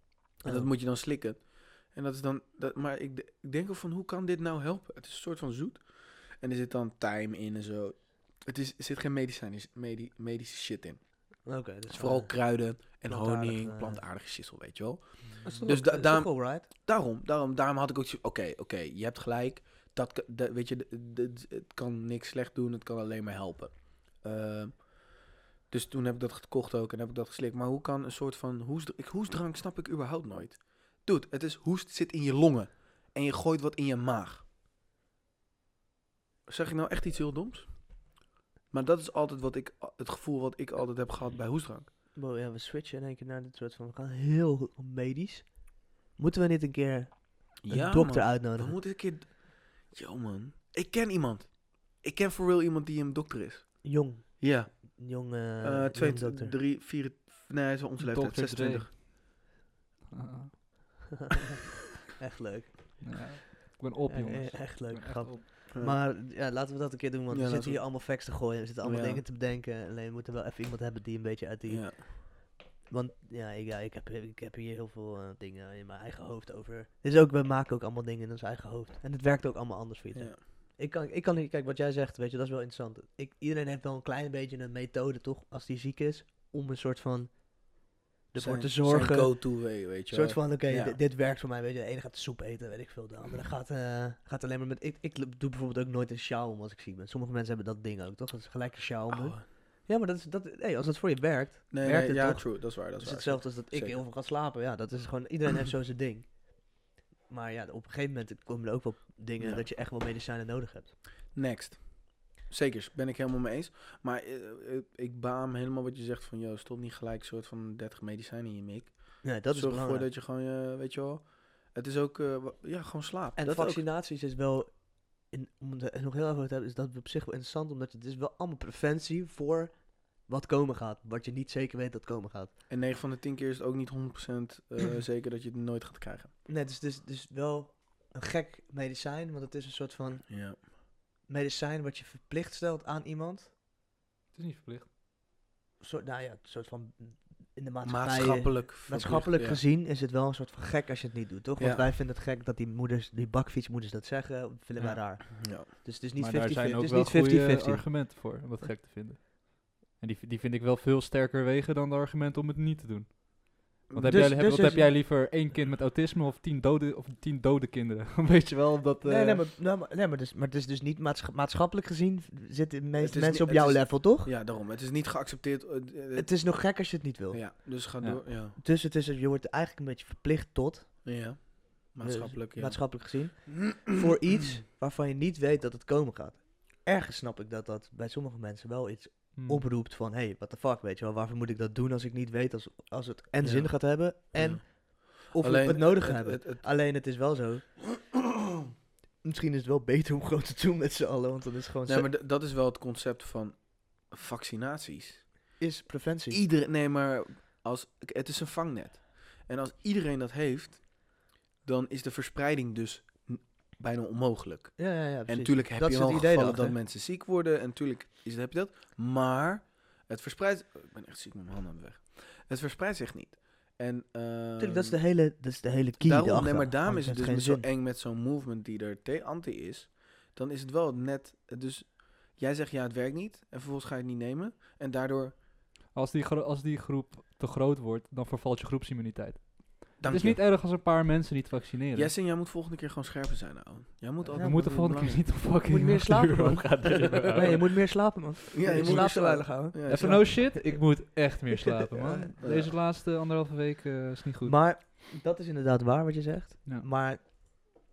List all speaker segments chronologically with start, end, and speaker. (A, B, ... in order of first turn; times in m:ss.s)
0:00.4-0:00.7 A
0:00.4-0:34.4 B
0:11.4-0:14.0 A
0:15.2-0:15.7 C
0:15.4-0:16.7 A
0:36.5-0:38.1 B
0:38.7-0:41.9 B
0:42.1-0:48.8 A
0:47.6-0:58.9 B
0:53.8-0:56.6 A
0:58.0-0:59.3 C
1:00.1-1:00.6 C
1:02.2-1:03.3 A
1:03.0-1:05.5 C
1:04.0-1:50.9 A
1:05.7-1:06.0 B
1:07.3-1:08.0 B
1:08.8-1:09.2 B
1:11.7-1:12.0 B
1:20.1-1:20.4 B
1:28.4-1:31.0 B
1:39.1-1:39.4 B
1:41.7-1:44.0 B
1:49.4-1:49.6 B
1:51.3-2:03.8 B
1:59.2-2:00.1 A
2:03.3-2:12.5 A
2:12.7-2:16.3 B
2:16.4-2:23.5 A
2:20.3-2:20.6 B
2:24.3-2:24.9 C
2:25.8-2:38.7 A
2:27.8-2:29.6 B
2:31.6-2:31.9 B
2:34.8-2:35.2 C
2:35.4-2:35.7 B
2:36.2-2:49.5 C
2:43.9-2:44.3 B
2:44.0-2:45.0 A
2:49.0-2:54.3 A
2:53.0-2:56.5 B
2:56.1-2:57.5 A
2:57.3-2:58.6 B
2:58.6-3:01.3 A
3:01.0-3:04.1 B
3:02.0-3:17.8 A
3:09.3-3:09.6 C
3:13.4-3:16.7 B
3:19.2-3:22.1 A
3:21.8-3:25.3 B
3:25.6-3:26.4 A
3:26.3-3:45.0 B
3:34.8-3:36.8 A
3:44.6-3:47.7 A
3:46.0-3:55.4 B
3:55.9-4:02.1 C
4:00.0-4:00.4 B
4:01.9-4:05.4 B
4:04.3-4:12.3 A
4:04.3-4:07.8 C
4:07.2-4:07.6 B
4:08.5-4:10.4 B
4:08.7-4:14.6 C
4:12.4-4:12.8 B
4:14.4-4:17.3 A